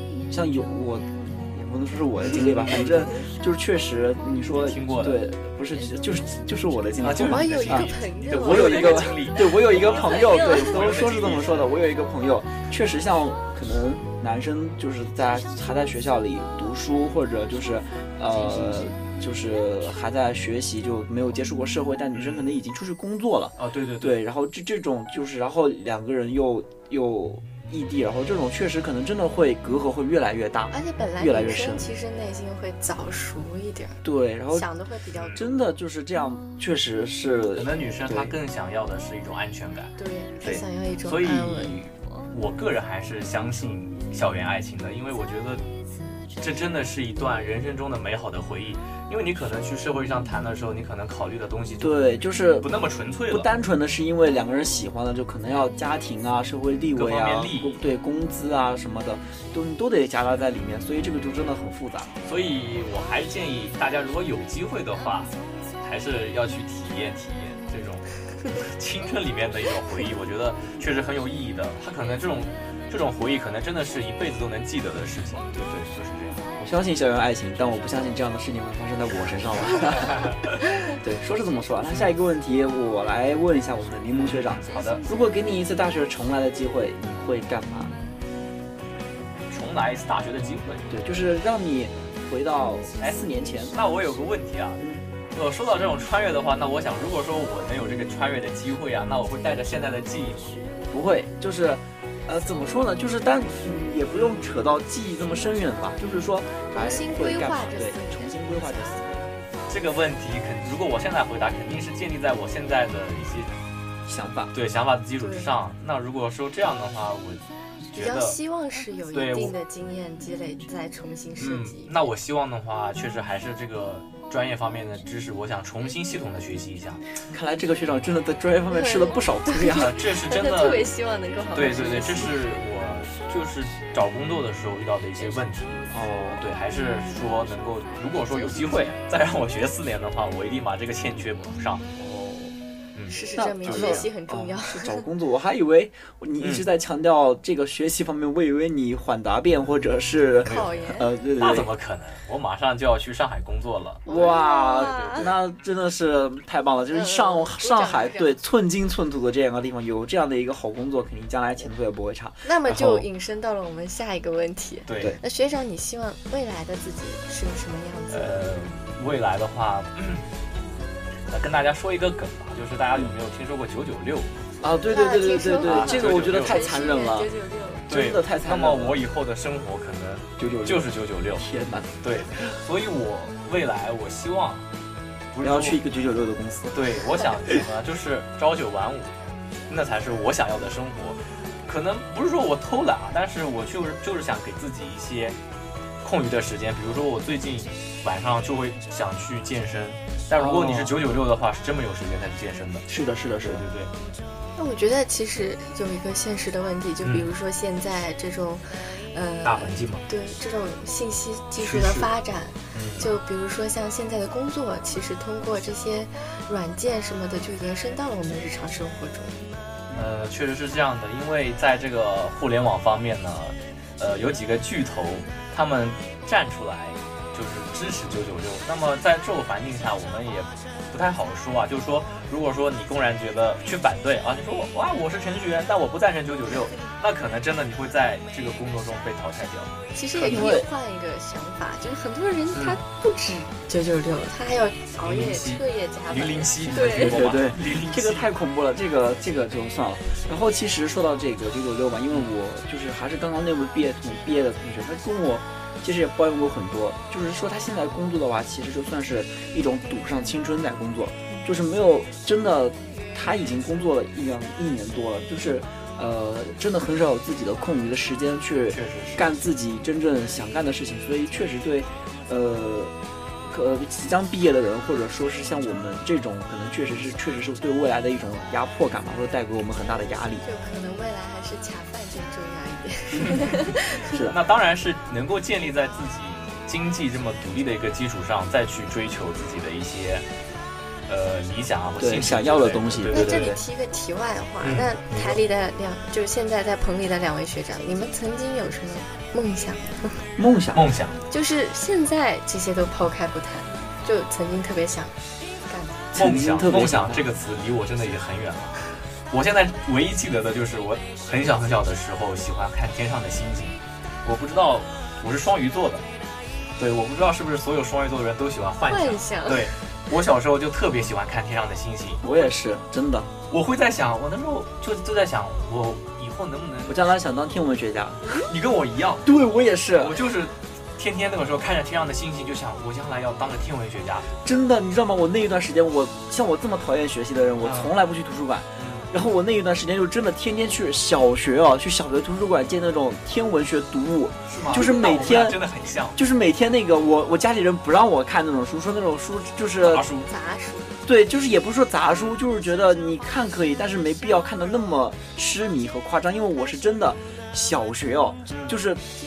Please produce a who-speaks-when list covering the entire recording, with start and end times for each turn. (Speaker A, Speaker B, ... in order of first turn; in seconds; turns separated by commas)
Speaker A: 0.3-31.9, Speaker B: 2.3-3.0, Speaker B: 4.5-5.2, Speaker B: 7.0-11.8, Speaker C: 7.2-10.8, Speaker B: 22.1-22.5, Speaker B: 23.6-24.1, Speaker C: 30.7-34.0, Speaker A: 34.0-34.7, Speaker C: 34.5-35.4, Speaker B: 35.1-35.4, Speaker A: 35.3-38.3, Speaker B: 37.5-39.9, Speaker C: 40.0-41.8, Speaker B: 41.0-45.6, Speaker B: 46.4-53.5, Speaker A: 51.8-52.7, Speaker A: 53.3-62.1, Speaker B: 56.9-57.9, Speaker B: 62.2-76.5, Speaker A: 76.6-80.3, Speaker B: 79.8-80.4, Speaker A: 80.9-88.0, Speaker B: 84.1-85.0, Speaker B: 89.5-90.9, Speaker A: 90.9-93.8, Speaker B: 93.0-100.6, Speaker A: 94.8-95.0, Speaker A: 100.9-109.4, Speaker C: 106.7-109.1, Speaker B: 109.7-113.5, Speaker A: 114.0-114.5, Speaker B: 114.5-118.4, Speaker C: 115.2-115.5, Speaker C: 117.9-122.1, Speaker B: 119.1-119.5, Speaker B: 121.4-127.0, Speaker A: 127.3-130.0, Speaker C: 128.7-132.3, Speaker B: 129.7-130.9, Speaker B: 131.5-135.8, Speaker A: 135.9-136.4, Speaker B: 136.3-141.8, Speaker A: 141.9-142.5, Speaker B: 142.9-144.1, Speaker C: 143.1-145.0, Speaker A: 143.3-151.7, Speaker B: 146.4-146.7, Speaker B: 150.4-150.8, Speaker C: 150.4-151.1, Speaker B: 151.4-154.1, Speaker C: 154.1-155.3, Speaker A: 154.1-163.1, Speaker B: 154.8-155.2, Speaker C: 156.9-158.4, Speaker C: 162.4-168.5, Speaker B: 164.9-165.2, Speaker B: 168.1-170.3, Speaker B: 171.3-174.3, Speaker A: 174.6-177.3, Speaker C: 174.9-177.8, Speaker B: 175.6-176.6, Speaker A: 177.9-179.0, Speaker B: 177.9-181.5, Speaker A: 180.4-182.0, Speaker B: 182.0-184.7, Speaker B: 185.3-185.8, Speaker A: 185.4-186.8, Speaker B: 186.7-189.2, Speaker B: 189.7-195.4, Speaker B: 196.0-202.8, Speaker A: 200.3-200.9, Speaker A: 202.9-203.6, Speaker B: 203.4-203.9, Speaker C: 204.6-219.4, Speaker B: 209.4-210.0, Speaker B: 211.6-212.1, Speaker B: 212.7-213.1, Speaker B: 219.9-240.6, Speaker C: 239.9-247.2, Speaker A: 240.2-240.7, Speaker B: 242.5-242.8, Speaker B: 245.0-248.3, Speaker A: 246.8-280.4, Speaker B: 268.7-269.3, Speaker C: 280.4-284.0, Speaker B: 283.2-290.2, Speaker A: 284.1-284.4, Speaker B: 291.1-293.5, Speaker A: 292.0-293.6, Speaker C: 293.1-300.2, Speaker B: 294.6-295.4, Speaker A: 300.4-300.8, Speaker B: 300.7-301.2, Speaker C: 301.3-305.1, Speaker C: 305.7-306.1, Speaker A: 306.1-307.2, Speaker B: 306.1-316.0, Speaker B: 316.8-322.4, Speaker C: 318.9-319.7, Speaker A: 322.2-323.3, Speaker B: 323.5-327.1, Speaker A: 326.9-328.3, Speaker B: 328.3-329.3, Speaker A: 329.2-330.2, Speaker B: 329.9-334.3, Speaker A: 334.4-345.6, Speaker B: 337.6-337.9, Speaker B: 338.8-339.1, Speaker B: 344.5-346.2, Speaker C: 344.7-345.1, Speaker A: 346.1-350.1, Speaker B: 349.8-350.3, Speaker C: 350.3-351.0, Speaker A: 351.1-359.0